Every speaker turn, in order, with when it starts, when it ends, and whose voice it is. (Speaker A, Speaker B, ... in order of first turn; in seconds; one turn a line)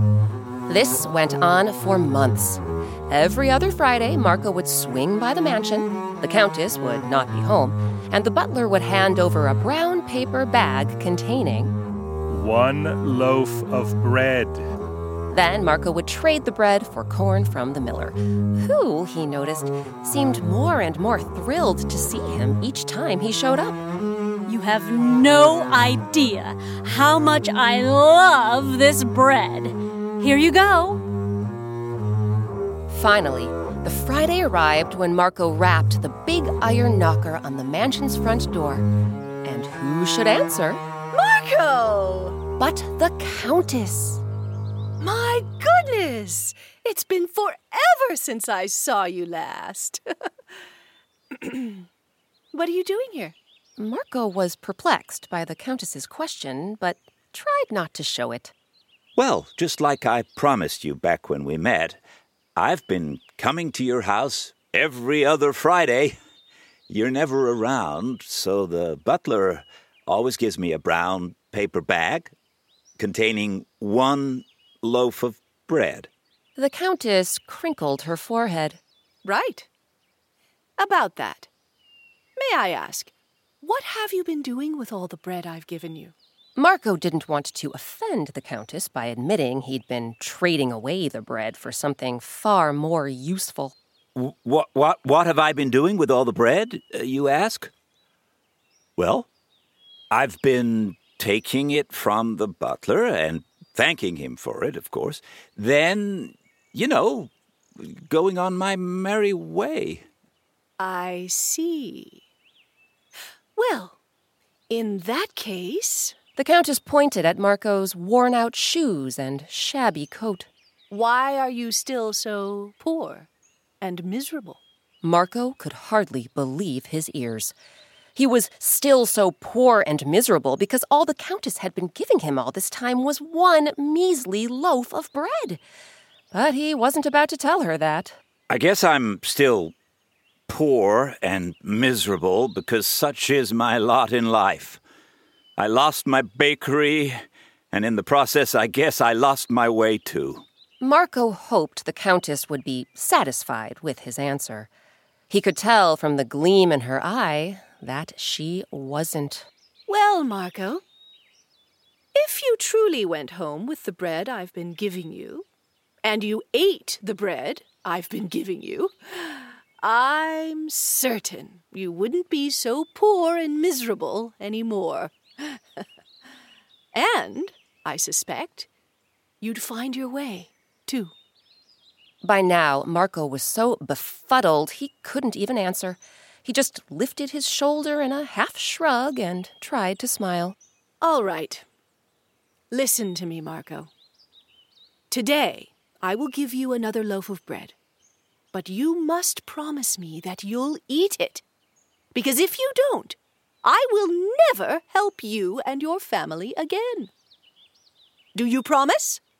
Speaker A: 0.7-11.7
Speaker B: 12.3-14.7
Speaker A: 15.3-23.8
Speaker C: 24.5-31.0
Speaker A: 32.9-38.8
Speaker A: 39.4-40.8
Speaker D: 41.1-42.4
Speaker A: 42.6-44.2
Speaker D: 45.0-50.0
Speaker D: 51.3-51.9
Speaker D: 52.5-53.3
Speaker A: 53.8-58.5
Speaker E: 59.1-62.0
Speaker E: 62.5-66.2
Speaker E: 66.9-72.3
Speaker E: 73.0-76.1
Speaker A: 76.5-78.8
Speaker D: 79.2-79.7
Speaker D: 80.8-81.5
Speaker D: 82.4-86.1
Speaker A: 86.5-93.7
Speaker E: 94.1-97.7
Speaker E: 99.0-99.3
Speaker E: 100.1-110.0
Speaker D: 110.8-112.2
Speaker D: 113.5-114.0
Speaker D: 114.7-116.2
Speaker A: 116.3-120.5
Speaker D: 120.9-123.3
Speaker D: 123.8-124.6
Speaker A: 125.0-127.5
Speaker A: 128.2-135.6
Speaker A: 136.3-138.2
Speaker E: 138.5-139.7
Speaker E: 140.5-144.8
Speaker E: 145.6-147.2
Speaker E: 147.7-150.4
Speaker A: 150.8-154.7
Speaker A: 155.3-159.5
Speaker D: 159.9-160.8
Speaker D: 162.1-165.4
Speaker D: 166.0-175.8
Speaker D: 176.9-178.7
Speaker D: 179.4-181.1
Speaker A: 182.2-190.6
Speaker D: 191.0-191.6
Speaker D: 192.7-193.9
Speaker D: 195.1-197.7
Speaker D: 198.5-201.4
Speaker D: 202.1-207.1
Speaker D: 208.3-209.2